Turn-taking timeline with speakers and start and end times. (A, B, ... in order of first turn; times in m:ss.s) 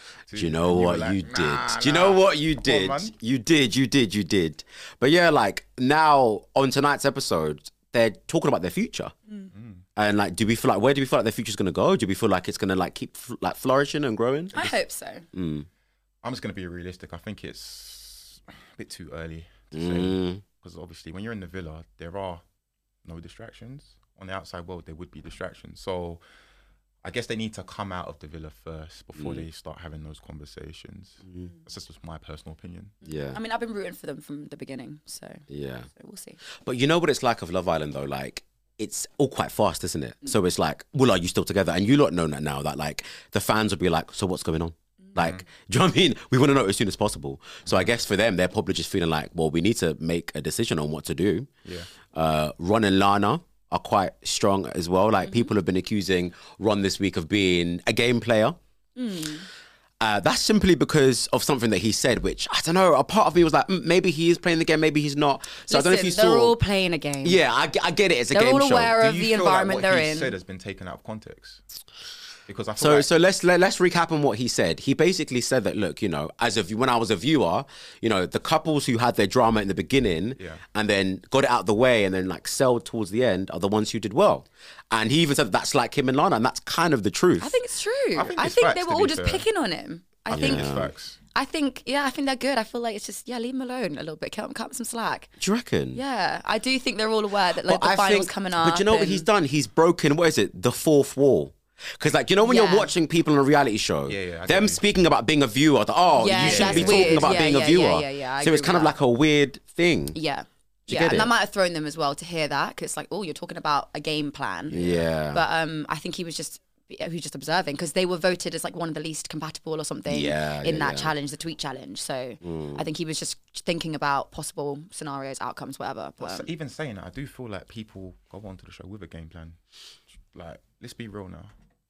0:00.3-0:03.1 A
0:00.4-0:09.1 B
0:09.5-0:09.8 A
0:10.0-0:14.7 B
0:14.5-0:15.2 C
0:15.3-0:15.7 B
0:16.2-0:22.4 A
0:19.7-0:20.4 B
0:23.0-0:26.2 A
0:27.0-0:33.0 A
0:29.2-0:29.4 B
0:33.0-0:35.4 C
0:33.0-0:33.4 B
0:35.5-0:35.9 B
0:35.9-0:36.4 C
0:36.6-0:51.5 B
0:45.2-0:45.4 A
0:52.1-0:58.6 B
0:59.0-0:59.5 C
1:00.0-1:06.6 B
1:05.7-1:07.4 C
1:07.2-1:09.0 B
1:08.3-1:10.4 C
1:09.0-1:11.6 A
1:12.5-1:13.1 A
1:12.8-1:27.5 B
1:20.4-1:20.6 A
1:27.4-1:30.8 C
1:28.1-1:29.4 A
1:30.3-1:31.2 A
1:30.3-1:30.9 B
1:31.3-1:35.3 C
1:35.4-1:36.0 B
1:35.9-1:39.3 C
1:37.6-1:50.2 B
1:42.4-1:42.9 C
1:44.1-1:44.8 A
1:46.2-1:48.9 C
1:46.3-1:47.4 A
1:50.1-1:54.8 C
1:50.9-1:51.3 B
1:54.7-1:55.4 B
1:54.7-1:55.0 A
1:55.3-2:06.5 C
2:00.1-2:01.1 B
2:02.4-2:02.8 B
2:06.2-2:09.6 A
2:10.3-2:11.5 A